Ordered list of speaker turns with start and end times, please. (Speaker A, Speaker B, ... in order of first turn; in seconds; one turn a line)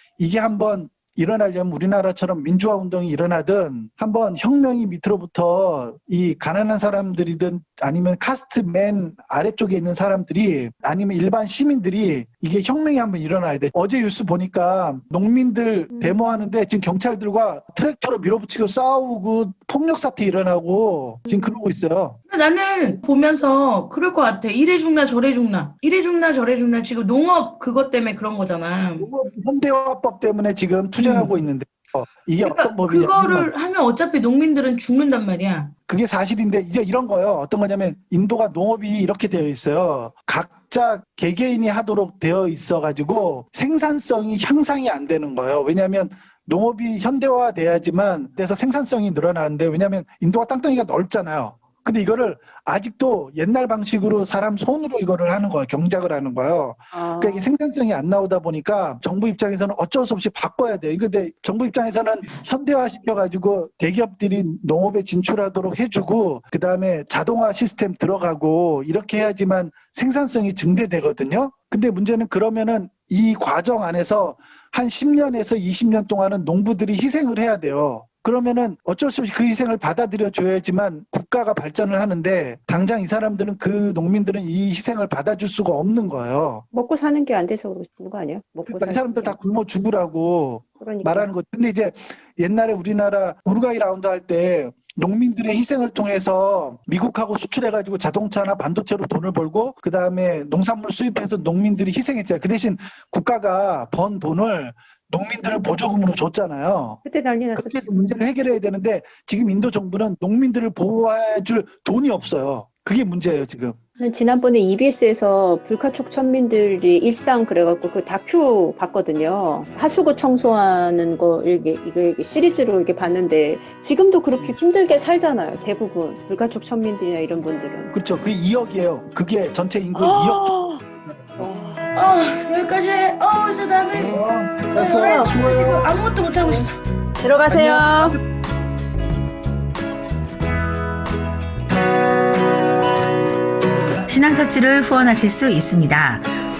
Speaker A: 0.2-22.2
Speaker B: 15.9-16.2
Speaker B: 21.2-21.7
Speaker C: 22.3-29.1
Speaker A: 29.0-33.5
Speaker C: 31.0-31.3
Speaker C: 32.4-35.7
Speaker A: 35.9-86.6
Speaker B: 56.9-57.5
Speaker B: 86.7-89.4
Speaker A: 88.7-107.0
Speaker B: 90.8-91.3
Speaker B: 107.0-107.9
Speaker A: 107.5-113.8
Speaker B: 114.0-127.9
Speaker A: 127.9-131.4
Speaker B: 129.9-130.8
Speaker B: 131.4-131.9
Speaker C: 131.9-134.2
Speaker A: 134.0-135.9
Speaker C: 134.7-136.7
Speaker B: 134.9-135.3
Speaker B: 137.2-138.2
Speaker A: 137.5-138.2
Speaker D: 144.1-146.3